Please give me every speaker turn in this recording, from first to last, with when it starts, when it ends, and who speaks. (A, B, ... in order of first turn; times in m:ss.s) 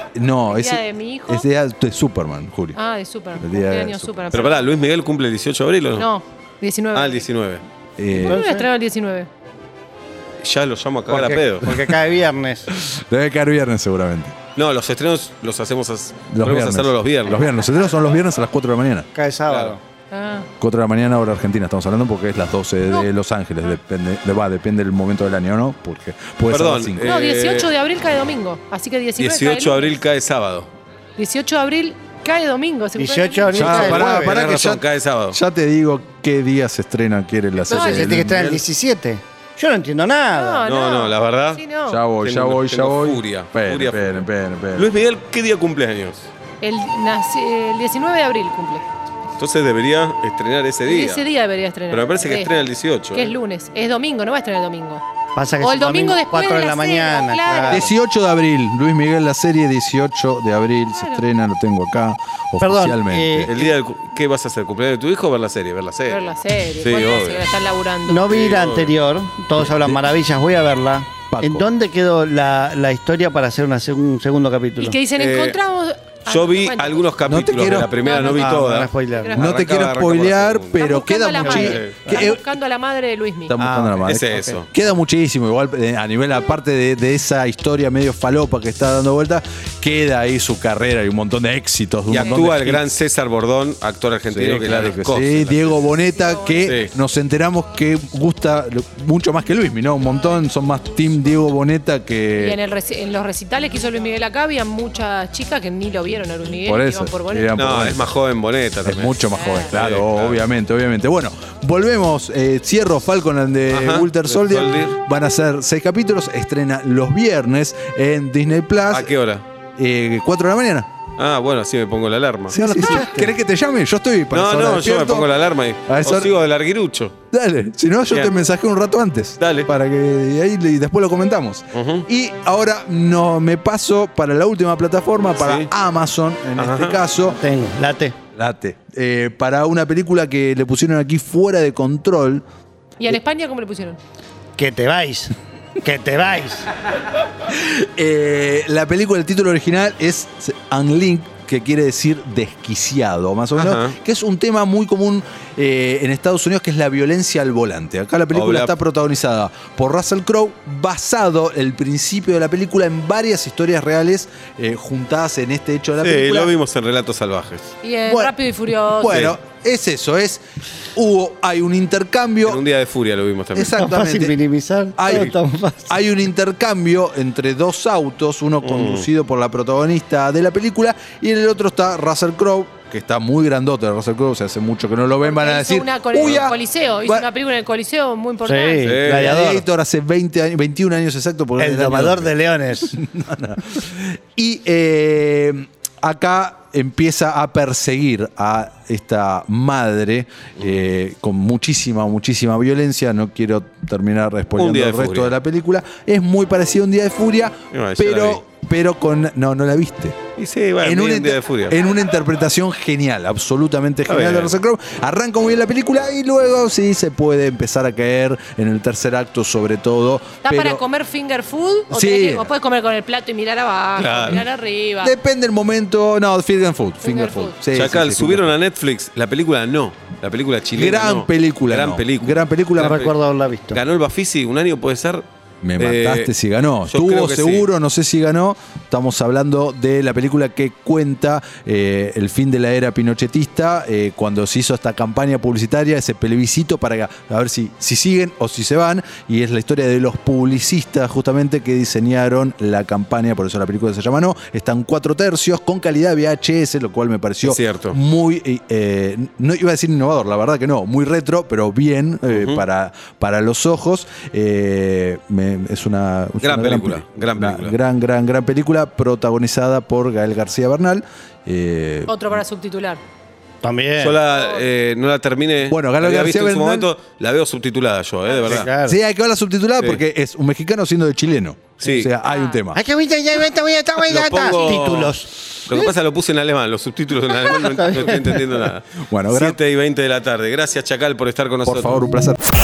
0:00.2-0:02.8 A
0:00.5-0:01.4 B
0:02.7-0:04.7 B
0:03.4-0:04.3 A
0:04.3-0:06.1 C
0:06.0-0:07.3 B
0:06.9-0:07.6 C
0:08.0-0:08.4 A
0:08.2-0:08.7 D
0:08.2-0:09.3 B
0:10.4-0:11.7 C
0:11.1-0:12.7 D
0:12.7-0:14.3 A
0:14.6-0:17.6 C
0:16.3-0:19.1 A
0:19.1-0:19.8 D
0:19.5-0:19.8 C
0:20.1-0:20.5 B
0:20.6-0:27.2 A
0:26.5-0:27.7 C
0:27.0-0:30.0 B
0:29.2-0:30.7 C
0:31.2-0:33.7 B
0:33.0-0:34.4 D
0:33.5-0:38.6 A
0:33.5-0:35.4 C
0:37.7-0:40.6 D
0:37.7-0:38.1 B
0:38.3-0:38.6 C
0:40.3-0:42.0 B
0:40.6-0:41.6 C
0:41.9-0:44.9 A
0:42.2-0:46.3 C
0:46.6-0:48.8 B
0:49.4-0:51.3 C
0:50.8-0:52.5 B
0:51.9-0:53.3 C
0:53.1-0:55.0 B
0:55.3-0:57.9 D
0:55.6-0:57.9 B
0:57.7-1:03.5 A
1:02.6-1:03.5 D
1:03.5-1:06.2 C
1:06.1-1:08.3 B
1:06.8-1:07.4 C
1:08.0-1:15.0 D
1:08.2-1:09.0 C
1:09.6-1:10.0 A
1:11.3-1:11.7 A
1:14.8-1:17.0 B
1:15.2-1:15.6 C
1:16.3-1:20.9 C
1:17.3-1:17.9 A
1:18.0-1:19.6 B
1:18.2-1:19.4 D
1:19.3-1:22.4 A
1:20.7-1:23.6 B
1:21.4-1:22.3 D
1:21.5-1:22.0 C
1:23.5-1:32.9 A
1:23.6-1:24.6 D
1:24.1-1:24.7 C
1:32.1-1:35.9 C
1:34.3-1:42.6 A
1:36.2-1:36.6 B
1:36.6-1:36.9 C
1:42.4-1:47.5 B
1:46.6-1:48.0 A
1:47.6-1:50.4 C
1:48.8-1:59.1 A
1:49.3-1:49.7 B
1:53.7-1:55.0 C
1:58.9-1:59.4 C
1:59.8-2:00.9 A
2:01.2-2:02.6 C
2:02.5-2:05.3 A
2:02.5-2:03.3 D
2:04.3-2:07.2 C
2:05.8-2:06.3 A
2:07.3-2:17.4 A
2:09.4-2:09.7 C
2:11.7-2:12.1 C
2:15.4-2:15.7 C
2:16.6-2:17.0 C
2:17.3-2:18.2 D
2:18.3-2:22.4 A
2:23.0-2:24.0 B
2:24.6-2:26.7 D
2:27.5-2:46.5 A
2:33.6-2:33.9 C
2:38.3-2:38.7 C
2:46.0-2:47.7 C
2:47.8-2:49.2 B
2:48.1-2:50.4 A
2:49.1-2:49.3 C
2:50.9-2:52.6 A
2:52.4-2:53.8 C
2:53.6-2:54.4 A
2:53.6-2:56.0 D
2:54.9-2:55.3 A
2:55.9-3:07.3 A
2:58.6-2:59.1 C
3:05.2-3:09.0 B
3:08.4-3:09.7 D
3:08.8-3:09.4 C
3:09.1-3:12.3 A
3:11.6-3:13.0 D
3:12.9-3:30.2 A
3:24.6-3:25.4 C
3:27.7-3:28.4 C
3:30.4-3:31.8 C
3:30.8-3:40.8 A
3:34.1-3:34.6 C
3:40.4-3:45.1 B
3:41.9-3:42.5 A
3:44.0-3:44.4 C
3:45.0-3:48.5 A
3:47.0-3:47.6 B
3:47.7-3:53.1 C
3:50.7-3:53.0 A
3:52.8-3:53.8 D
3:53.7-3:55.2 C
3:55.6-4:32.4 A
3:55.8-3:56.3 C
3:56.9-3:57.7 C
4:17.4-4:18.0 C
4:22.3-4:22.6 C
4:26.4-4:27.8 C
4:32.1-4:33.0 B
4:33.6-4:34.2 D
4:34.0-4:38.7 C
4:34.4-4:34.6 B
4:35.7-4:36.9 A
4:38.4-4:39.0 D
4:38.6-4:42.8 A
4:41.8-4:42.1 C
4:42.2-4:42.6 B
4:42.7-4:45.9 D
4:44.0-4:52.0 C
4:47.5-4:48.4 D
4:49.0-4:49.6 A
4:51.6-4:52.4 A